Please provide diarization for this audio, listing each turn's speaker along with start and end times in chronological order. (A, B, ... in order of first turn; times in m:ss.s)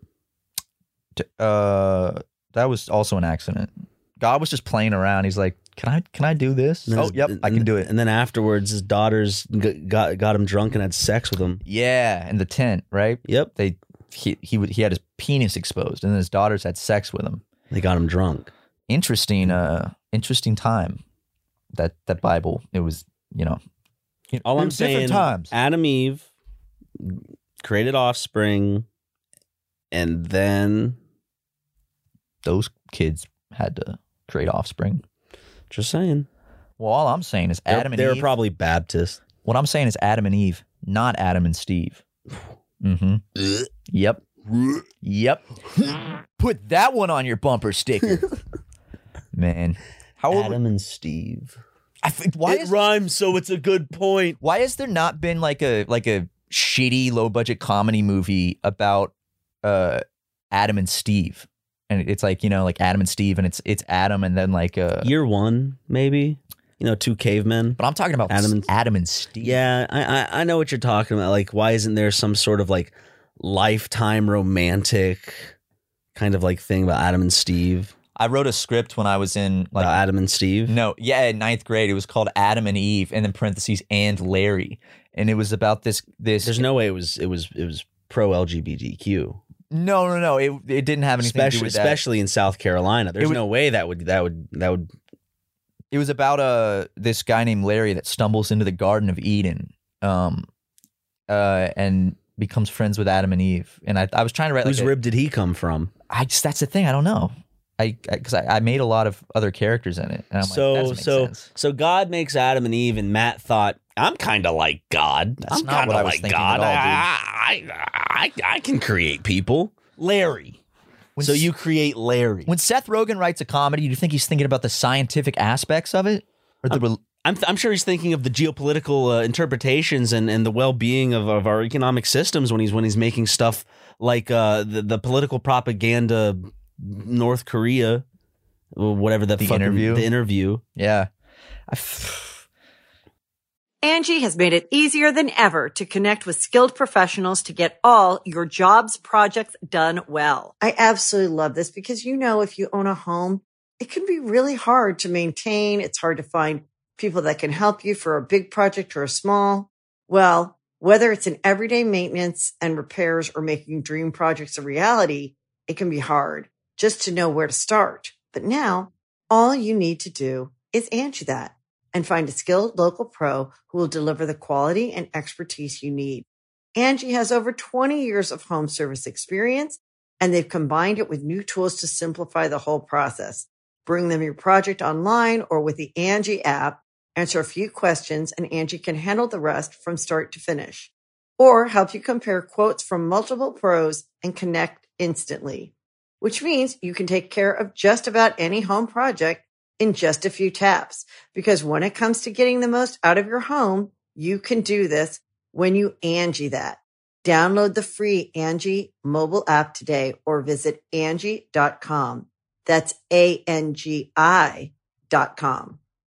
0:01.2-0:07.9 A
0:06.9-0:11.6 B
0:11.6-0:17.4 A
0:13.2-0:13.5 B
0:17.7-0:18.5 B
0:18.9-0:21.0 A
0:21.7-0:23.6 A
0:24.3-0:25.5 A
0:24.4-0:26.3 B
0:27.0-0:28.8 B
0:29.9-0:31.0 B
0:32.4-0:35.0 A
0:35.7-0:36.3 B
0:36.8-0:38.3 A
0:37.7-0:39.2 B
0:39.4-0:42.0 A
0:42.8-0:43.2 A
0:43.9-0:44.2 A
0:44.5-0:44.8 B
0:45.0-0:48.2 A
0:49.3-0:50.6 A
0:50.3-0:51.6 B
0:52.0-0:52.8 A
0:52.4-0:54.4 B
0:54.4-0:59.1 A
0:59.6-1:05.1 A
1:05.0-1:08.7 B
1:07.8-1:09.6 A
1:09.4-1:15.5 B
1:16.1-1:17.9 B
1:18.2-1:20.0 A
1:19.8-1:20.8 B
1:20.7-1:26.6 A
1:26.4-1:29.4 B
1:29.7-1:32.0 A
1:31.2-1:34.9 B
1:35.9-1:40.5 A
1:41.3-1:44.9 A
1:44.6-1:45.9 B
1:46.1-1:51.5 A
1:50.4-2:00.6 B
1:55.4-1:57.1 A
2:01.2-2:01.5 A
2:01.2-2:02.5 B
2:02.5-2:07.0 A
2:06.7-2:18.0 B
2:18.7-2:20.6 B
2:19.4-2:20.1 A
2:20.8-2:21.1 A
2:21.7-2:22.4 A
2:23.8-3:35.8 C